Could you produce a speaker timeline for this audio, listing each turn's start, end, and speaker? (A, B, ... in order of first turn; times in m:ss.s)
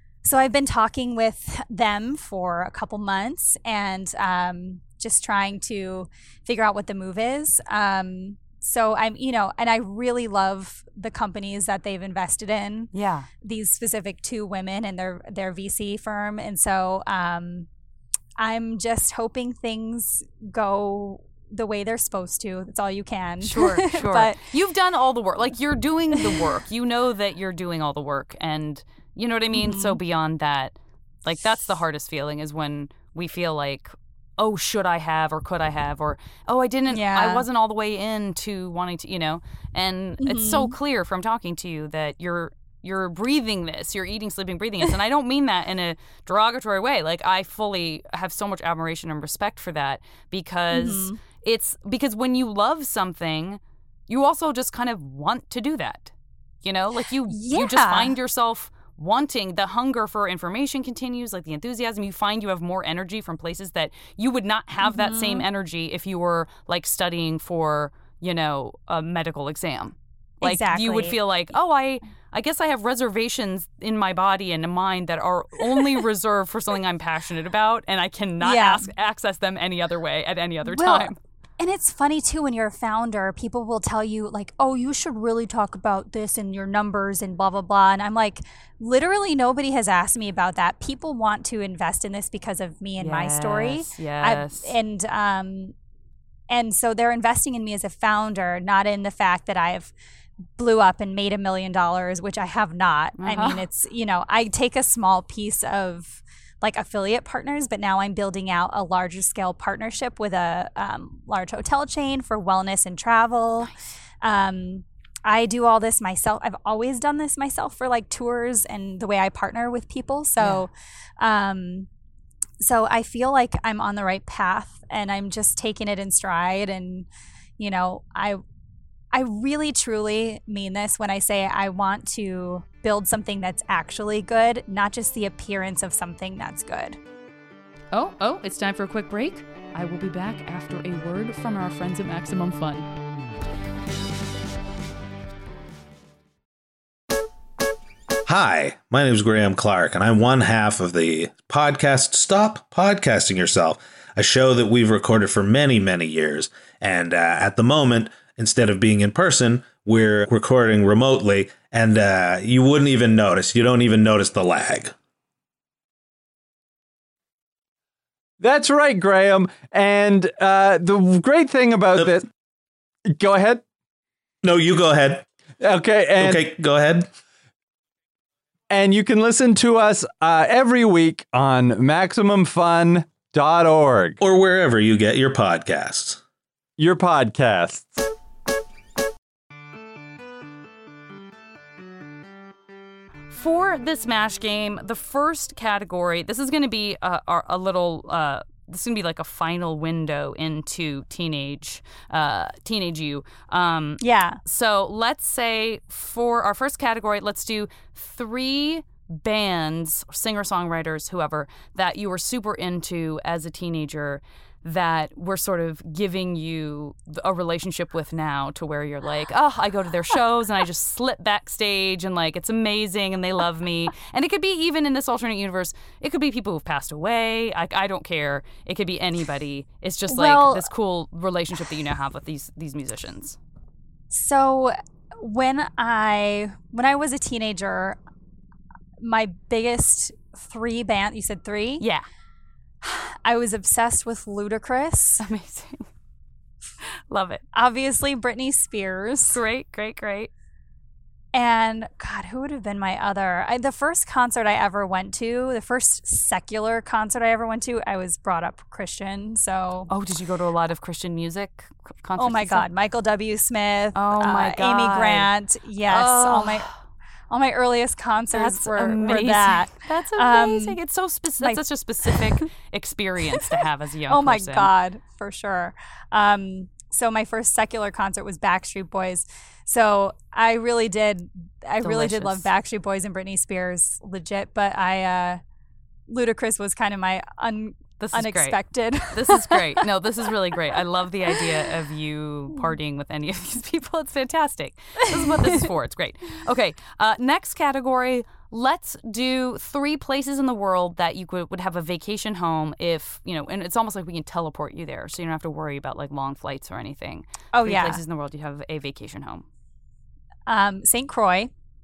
0:00.2-0:17.7 A
0:12.9-0:13.3 B
0:18.4-0:24.4 A
0:23.4-0:56.1 B
0:26.2-0:26.4 A
0:29.5-0:30.0 A
0:36.9-0:37.5 A
0:40.2-0:40.8 A
0:50.7-0:51.2 A
0:56.6-1:21.2 B
0:57.3-0:58.2 A
1:04.8-1:05.4 A
1:10.4-1:11.2 A
1:18.4-1:18.9 A
1:20.6-1:35.8 A
1:33.0-1:34.8 B
1:36.5-1:39.9 A
1:40.6-2:01.9 A
1:43.2-1:43.6 B
2:00.4-2:00.6 B
2:02.6-2:07.1 A
2:07.6-2:08.4 A
2:09.1-2:17.0 A
2:17.9-2:22.9 B
2:28.3-2:44.9 C
2:48.4-2:52.3 D
2:53.1-2:53.6 D
2:54.4-2:55.3 C
2:55.6-2:56.5 D
2:56.2-2:57.1 C
2:58.7-3:04.2 D
3:04.2-3:06.2 C
3:06.8-3:08.0 D
3:13.3-3:53.4 B
3:24.0-3:24.4 A
3:50.1-3:50.7 A
3:54.1-3:58.0 A
3:59.0-4:01.8 A
4:01.8-4:02.1 B
4:02.8-4:05.3 A
4:05.2-4:05.9 B
4:06.8-4:07.4 B
4:07.5-4:09.4 A
4:09.3-4:10.3 B
4:11.3-4:19.9 A
4:19.9-4:22.7 B
4:22.2-4:26.7 A
4:24.0-4:25.3 B
4:25.9-4:26.8 B
4:27.3-4:30.8 A
4:28.3-4:34.7 B
4:31.4-4:32.4 A
4:33.3-4:45.4 A
4:41.8-4:42.5 B
4:46.1-4:49.9 A
4:48.0-4:48.6 B
4:49.1-5:09.4 B
4:51.3-4:51.6 A
5:07.5-5:08.0 A
5:10.5-5:11.5 A